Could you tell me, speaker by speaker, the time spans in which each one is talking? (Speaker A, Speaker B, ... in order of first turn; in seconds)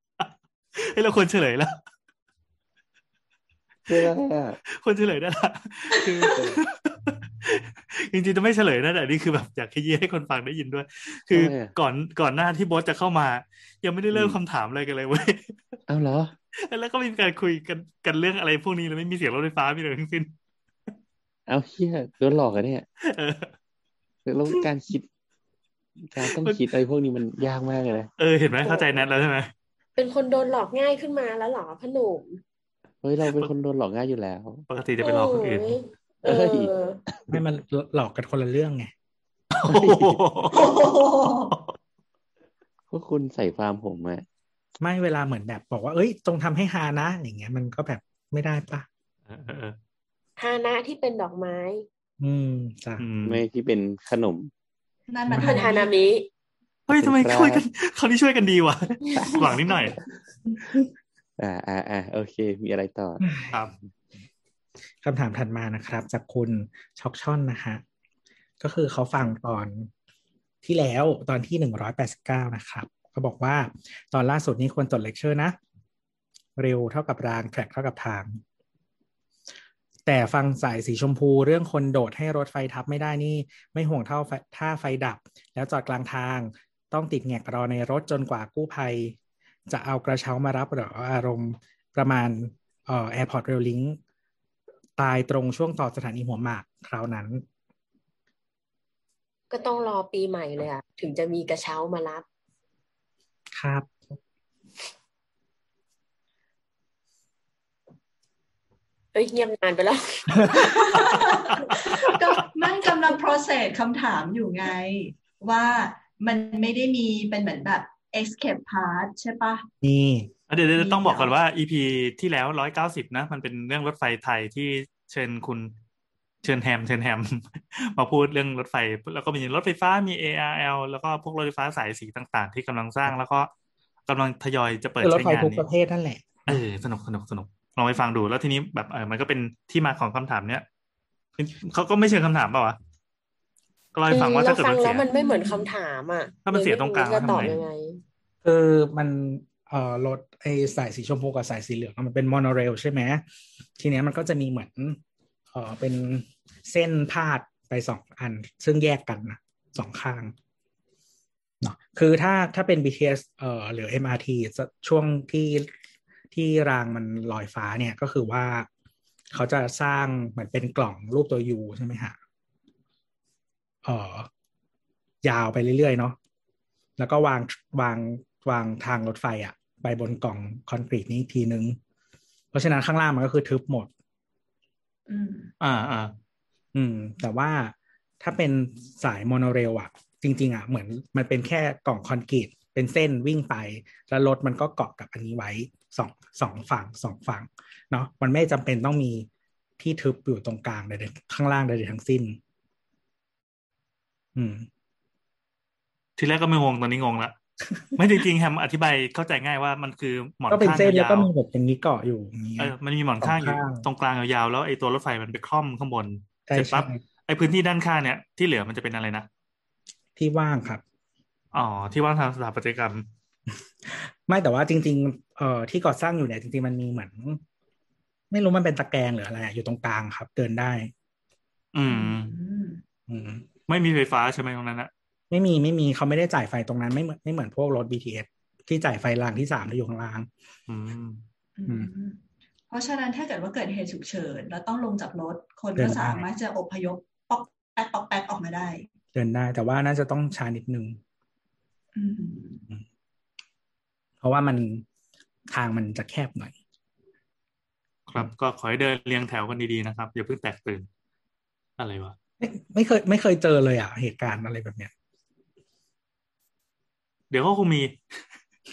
Speaker A: 0.2-1.7, 4.7-15.6, 16.6-20.3, 23.0-23.5, 26.2-26.6, 28.2-29.5, 34.7-35.8, 39.5-40.9, 49.3-49.8, 53.0-53.4, 56.9-60.0, 120.5-125.7, 126.4-133.5, 134.1-135.6, 136.5-140.6, 141.4-142.8, 143.9-145.1, 146.4-147.6, 185.6-186.1, 206.2-207.3, 207.9-211.3, 212.6-219.3, 221.5-223.1, 231.7-232.3, 233.7-234.9, 240.7-241.2, 258.1-260.9, 261.8-262.1, 267.3-267.9
Speaker B: 3.9-4.6, 6.3-6.6, 11.3-11.7, 14.1-14.4, 15.9-16.3, 21.5-22.8, 24.2-25.1, 26.0-28.1, 33.0-34.6, 36.2-36.7, 39.7-40.2, 42.9-44.2, 53.2-54.5, 57.0-57.6, 59.2-59.5, 61.4-63.2
Speaker C: 28.6-29.0, 29.9-32.4, 35.0-37.0, 50.4-51.9, 55.4-56.3, 99.5-102.2, 109.1-110.6, 144.1-148.0
Speaker D: 37.3-38.9, 44.8-48.9, 52.2-53.0, 55.3-55.6, 63.2-63.5, 65.0-67.8, 68.6-69.9, 70.6-75.6, 76.6-78.4, 80.0-89.2, 89.7-94.0, 95.0-97.4, 103.5-104.2, 119.8-120.3, 135.0-136.6, 148.4-153.2, 153.8-155.0, 155.5-160.3, 161.6-165.7, 166.3-168.7, 169.3-172.2, 173.8-174.3, 175.2-176.2, 177.0-181.8, 182.5-183.9, 186.7-199.3, 199.8-202.4, 204.3-204.7, 210.5-213.8, 216.5-217.0, 220.2-220.8, 223.8-227.4, 228.3-230.9, 233.1-233.4, 235.3-240.3, 245.7-246.3, 249.1-251.0, 254.2-254.8, 255.5-256.5, 262.4-264.9
Speaker E: 40.5-41.5, 55.1-55.9, 110.5-119.7, 120.8-121.3, 145.1-145.7, 185.1-185.5, 231.9-232.8, 241.6-248.9, 251.9-252.7